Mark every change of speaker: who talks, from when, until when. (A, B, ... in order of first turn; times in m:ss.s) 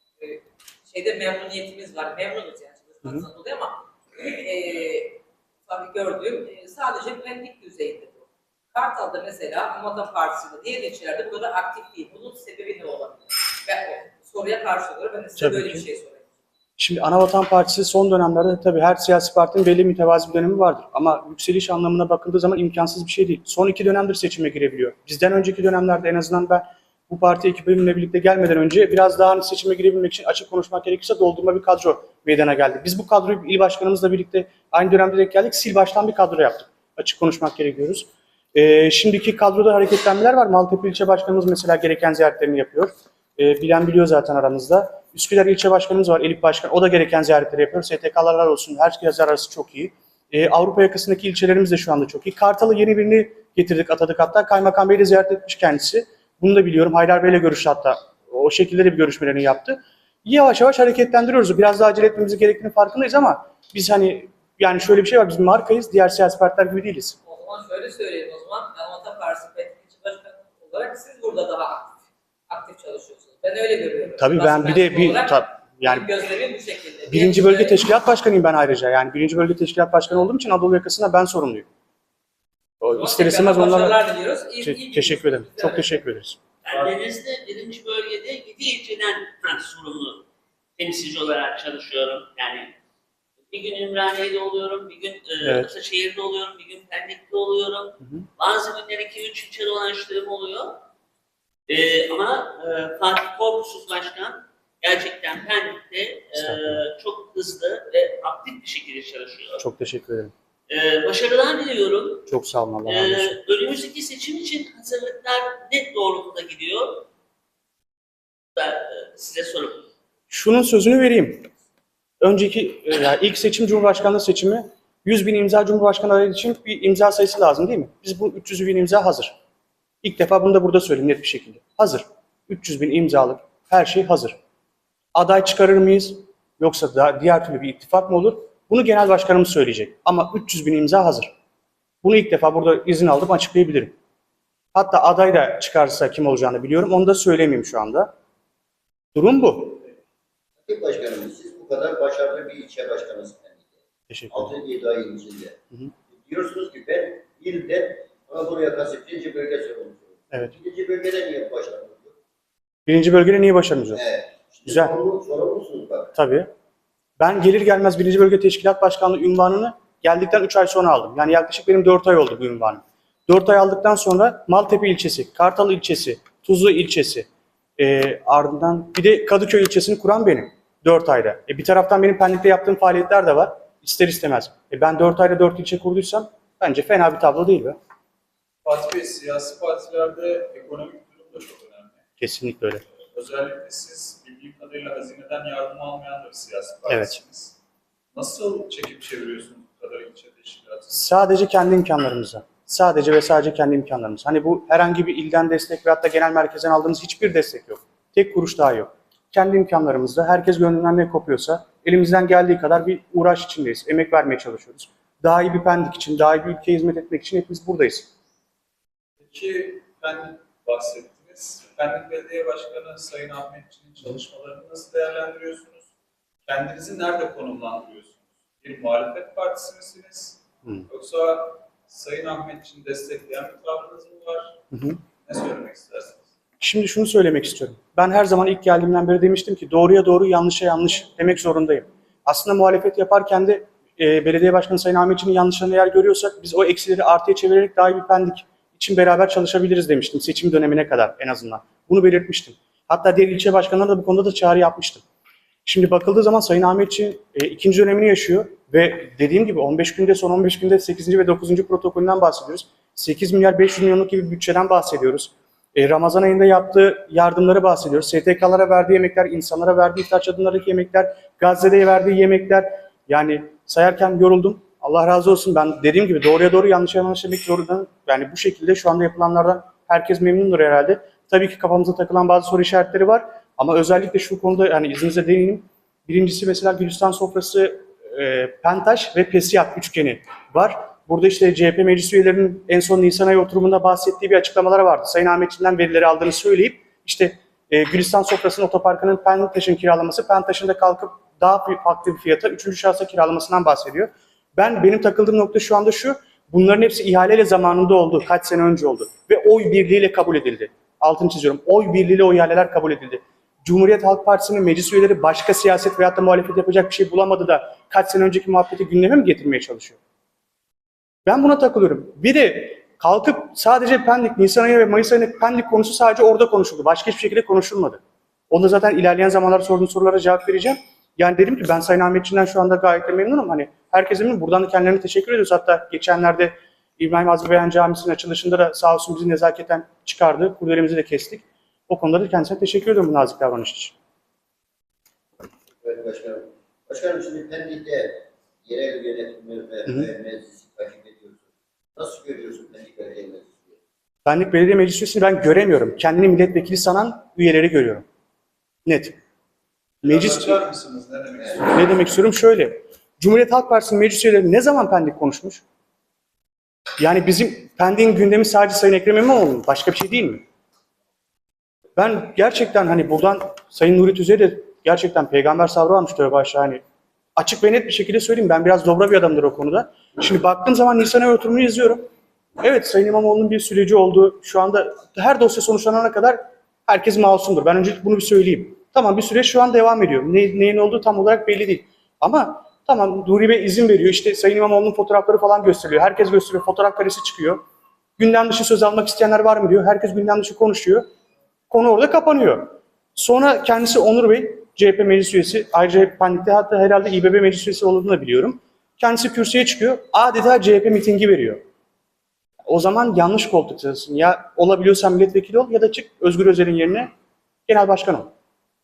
0:00.2-0:16.2 A
0:15.4-0:15.9 B
0:16.8-1:07.2 B
1:07.2-1:12.0 A
1:12.5-1:17.8 A
1:14.2-1:16.1 B
1:17.1-1:21.7 B
1:22.8-1:24.0 B
1:22.9-1:26.0 A
1:24.6-1:26.4 B
1:26.6-1:30.2 C
1:26.7-1:27.0 D
1:30.8-1:32.7 C
1:33.5-1:40.8 C
1:35.4-1:35.7 B
1:38.0-1:38.3 B
1:41.7-1:49.6 C
1:46.4-1:46.8 B
1:49.6-1:50.3 B
1:50.7-1:52.3 C
1:52.3-1:53.4 B
1:52.8-1:57.1 C
1:58.6-1:59.8 C
2:00.3-2:01.5 B
2:02.2-2:09.3 B
2:10.0-2:14.4 B
2:15.1-2:21.3 B
2:22.0-2:23.9 B
2:24.7-2:28.1 B
2:29.1-2:29.8 B
2:30.6-2:33.6 E
2:34.1-2:34.5 B
2:34.3-2:35.6 E
2:36.1-2:42.2 E
2:42.9-2:44.0 B
2:43.9-2:46.1 E
2:44.6-2:44.9 B
2:46.1-2:46.5 B
2:47.2-2:57.3 B
2:57.8-3:07.8 B
3:08.6-3:12.0 D
3:12.2-3:12.8 B
3:13.0-3:17.6 D
3:16.9-3:17.2 B
3:18.1-3:21.0 D
3:20.9-3:38.1 B
3:39.2-3:45.9 D
3:46.4-3:54.6 D
3:54.7-3:55.0 B
3:55.2-3:56.2 D
3:56.6-4:15.0 B
4:15.6-5:20.0 B
5:21.2-5:43.9 B
5:45.8-5:51.4 E
5:52.0-5:53.8 E
5:54.2-5:58.0 B
5:58.8-5:59.1 B
6:00.0-6:01.9 D
6:00.0-6:00.5 B
6:01.7-6:05.6 B
6:07.0-6:10.4 B
6:12.0-6:16.8 B
6:17.4-6:22.1 B
6:22.6-6:37.6 B
6:38.2-6:41.0 B
6:41.7-6:51.6 B
6:52.7-6:57.1 B
6:57.7-6:58.3 B